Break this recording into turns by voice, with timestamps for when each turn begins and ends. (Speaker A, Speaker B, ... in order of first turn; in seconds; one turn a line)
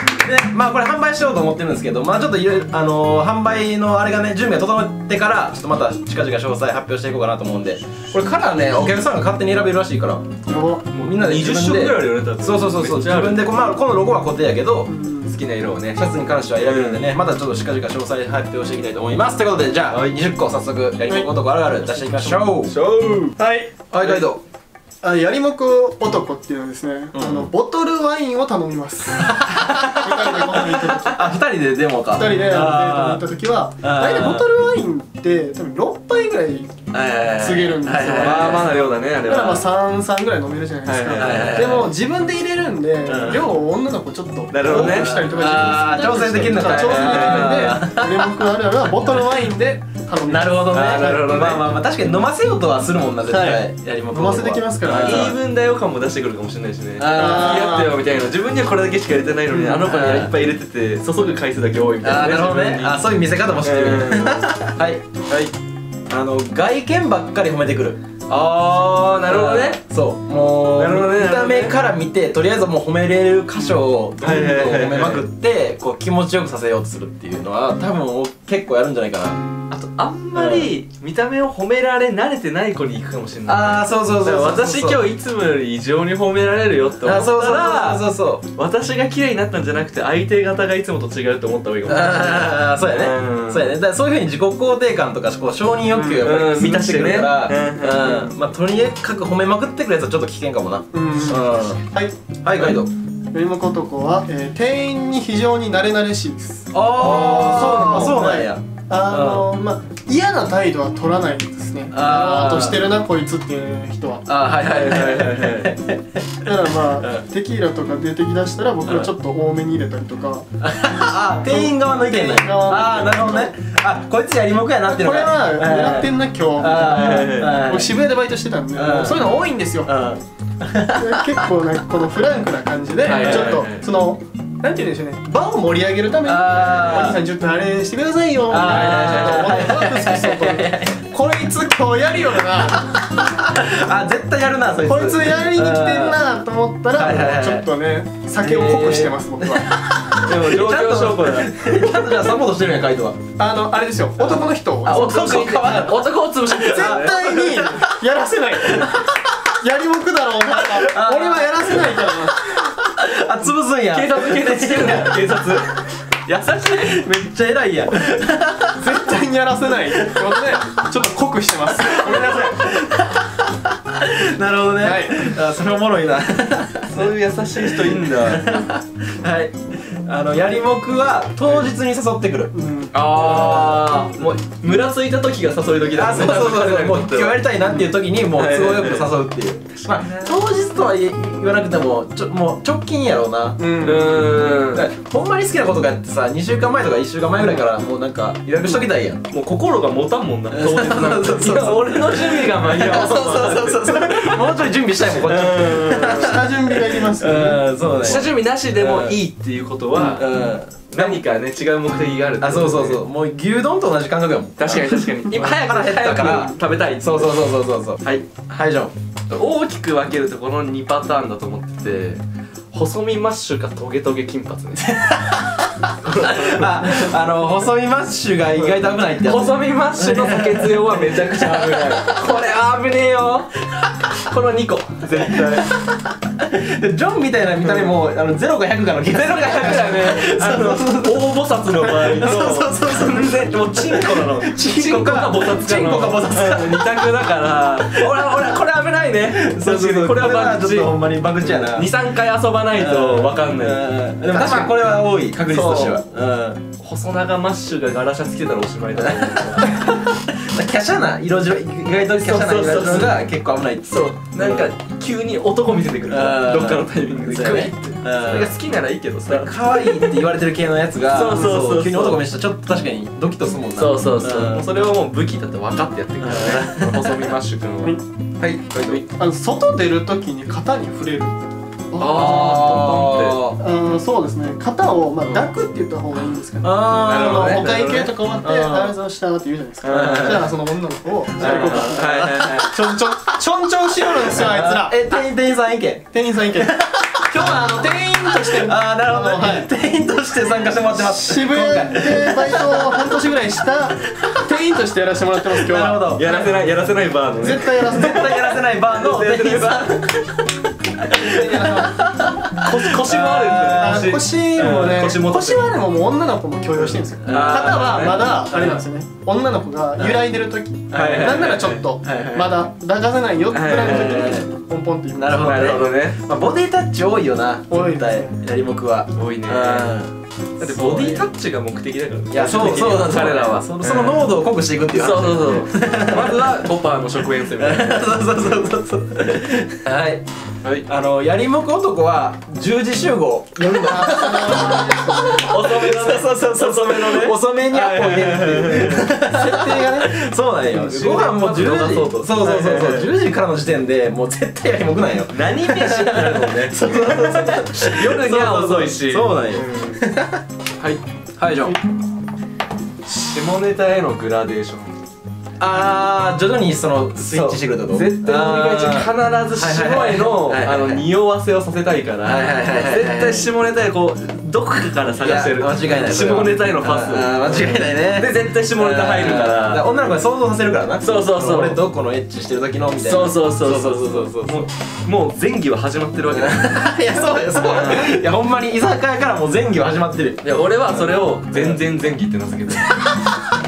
Speaker A: 0.2-10.2
Speaker B: 10.4-10.9
Speaker C: 10.9-13.5
Speaker A: 11.0-14.9
Speaker B: 14.9-15.3
Speaker C: 15.3-16.0
Speaker A: 15.9-22.7
Speaker C: 16.6-17.1
Speaker C: 19.9-20.2
Speaker B: 21.1-21.3
Speaker C: 22.0-23.4
Speaker B: 23.4-23.7
Speaker A: 23.9-24.4
Speaker C: 24.0-24.2
Speaker B: 25.0-31.3
Speaker A: 27.1-27.5
Speaker A: 29.2-33.2
Speaker B: 32.1-36.7
Speaker A: 33.8-34.5
Speaker A: 36.9-38.9
Speaker B: 37.4-51.1
Speaker C: 38.1-39.6
Speaker C: 40.8-41.8
Speaker A: 41.1-41.9
Speaker A: 43.0-43.5
Speaker C: 44.5-45.2
Speaker A: 44.6-48.4
Speaker C: 46.0-47.8
Speaker A: 50.2-55.4
Speaker C: 50.6-51.8
Speaker B: 53.3-55.3
Speaker C: 54.8-63.0
Speaker A: 57.0-57.9
Speaker B: 57.1-58.0
Speaker B: 59.5-59.8
Speaker A: 59.8-60.3
Speaker A: 62.0-65.0
Speaker C: 63.6-64.4
Speaker A: 66.1-68.0
Speaker C: 68.3-69.8
Speaker A: 69.2-79.4
Speaker C: 70.7-71.8
Speaker C: 74.2-75.2
Speaker C: 79.7-93.8
Speaker A: 80.3-80.7
Speaker A: 83.5-85.1
Speaker A: 87.0-88.4
Speaker A: 91.8-101.8
Speaker B: 95.9-96.4
Speaker C: 96.2-98.3
Speaker B: 100.9-102.1
Speaker A: 102.4-102.9
Speaker B: 103.3-114.3
Speaker A: 106.7-109.5
Speaker C: 107.0-108.1
Speaker A: 111.9-112.9
Speaker A: 114.2-117.2
Speaker C: 114.7-115.7
Speaker B: 116.4-120.5
Speaker A: 120.6-128.0
Speaker B: 121.4-123.5
Speaker B: 124.9-129.9
Speaker C: 126.8-127.6
Speaker A: 128.7-131.4
Speaker B: 130.9-143.0
Speaker C: 133.0-133.8
Speaker A: 133.1-133.6
Speaker A: 136.2-137.2
Speaker C: 136.7-137.2
Speaker A: 138.5-141.0
Speaker C: 138.5-139.8
Speaker A: 143.4-146.2
Speaker B: 144.8-149.7
Speaker A: 146.9-147.7
Speaker A: 148.4-153.2
Speaker C: 150.2-152.3
Speaker B: 153.4-155.1
Speaker A: 154.2-156.1
Speaker C: 154.2-157.4
Speaker B: 156.5-158.9
Speaker A: 156.6-157.9
Speaker A: 158.6-159.2
Speaker B: 159.6-162.5
Speaker A: 160.6-165.3
Speaker C: 163.9-167.0
Speaker A: 166.6-169.1
Speaker B: 168.8-172.6
Speaker A: 169.9-170.6
Speaker A: 171.7-182.5
Speaker B: 174.8-175.3
Speaker C: 176.9-178.5
Speaker B: 182.5-182.9
Speaker C: 182.9-187.5
Speaker A: 183.2-183.9
Speaker A: 185.9-199.2
Speaker C: 188.3-189.1
Speaker C: 189.8-190.4
Speaker B: 193.6-194.3
Speaker C: 193.8-194.9
Speaker C: 199.3-206.4
Speaker A: 200.5-209.2
Speaker B: 205.8-207.7
Speaker C: 208.0-210.3
Speaker A: 209.9-211.2
Speaker C: 210.9-213.0
Speaker A: 212.4-218.9
Speaker C: 214.6-217.4
Speaker C: 219.3-222.2
Speaker C: 222.7-225.1
Speaker A: 224.9-232.2
Speaker C: 226.0-227.1
Speaker C: 228.6-233.5
Speaker C: 234.2-235.8
Speaker A: 235.2-248.3
Speaker C: 237.6-237.9
Speaker C: 239.1-254.7
Speaker B: 242.2-243.1
Speaker A: 249.2-251.9
Speaker A: 252.7-256.6
Speaker C: 255.5-256.0
Speaker C: 256.8-259.8
Speaker A: 259.0-264.7
Speaker C: 262.1-263.2
Speaker C: 263.9-270.2
Speaker A: 266.1-268.5
Speaker A: 269.2-274.7
Speaker C: 271.1-272.2
Speaker C: 273.8-279.0
Speaker A: 276.2-277.3
Speaker A: 278.8-279.0
Speaker B: 279.1-281.4
Speaker B: 281.9-282.8
Speaker C: 282.0-283.4
Speaker A: 282.0-283.6
Speaker B: 283.6-295.0
Speaker A: 285.2-285.5
Speaker A: 286.6-288.9
Speaker C: 287.0-288.1
Speaker C: 289.8-290.5
Speaker A: 289.9-290.5
Speaker A: 291.3-293.1
Speaker C: 291.4-292.7
Speaker A: 294.1-297.8
Speaker B: 296.1-299.7
Speaker A: 298.4-303.3
Speaker B: 300.6-306.5
Speaker A: 305.5-306.4
Speaker C: 306.1-310.4
Speaker B: 307.3-308.3
Speaker A: 307.8-310.3
Speaker B: 311.1-311.9
Speaker A: 311.1-314.8
Speaker C: 312.5-315.8
Speaker B: 313.6-325.8
Speaker A: 317.2-318.7
Speaker C: 317.3-318.8
Speaker A: 320.0-320.3
Speaker A: 320.9-322.6
Speaker C: 320.9-321.8
Speaker C: 323.5-324.4
Speaker A: 323.6-324.5
Speaker A: 325.1-331.2
Speaker C: 325.4-326.2
Speaker B: 327.7-328.3
Speaker C: 329.1-330.0
Speaker C: 330.6-334.3
Speaker A: 332.3-336.6
Speaker C: 334.9-338.1
Speaker A: 337.5-340.2
Speaker A: 340.9-360.4
Speaker B: 343.6-345.5
Speaker C: 345.3-349.5
Speaker B: 349.4-350.1
Speaker C: 350.7-353.1
Speaker C: 355.3-360.0
Speaker A: 361.4-361.8
Speaker C: 363.1-364.9
Speaker A: 365.6-371.1
Speaker C: 367.2-379.9
Speaker A: 372.2-373.5
Speaker A: 375.2-384.7
Speaker C: 381.0-381.8
Speaker C: 383.0-386.9
Speaker A: 386.3-391.8
Speaker C: 387.5-388.2
Speaker C: 390.4-393.1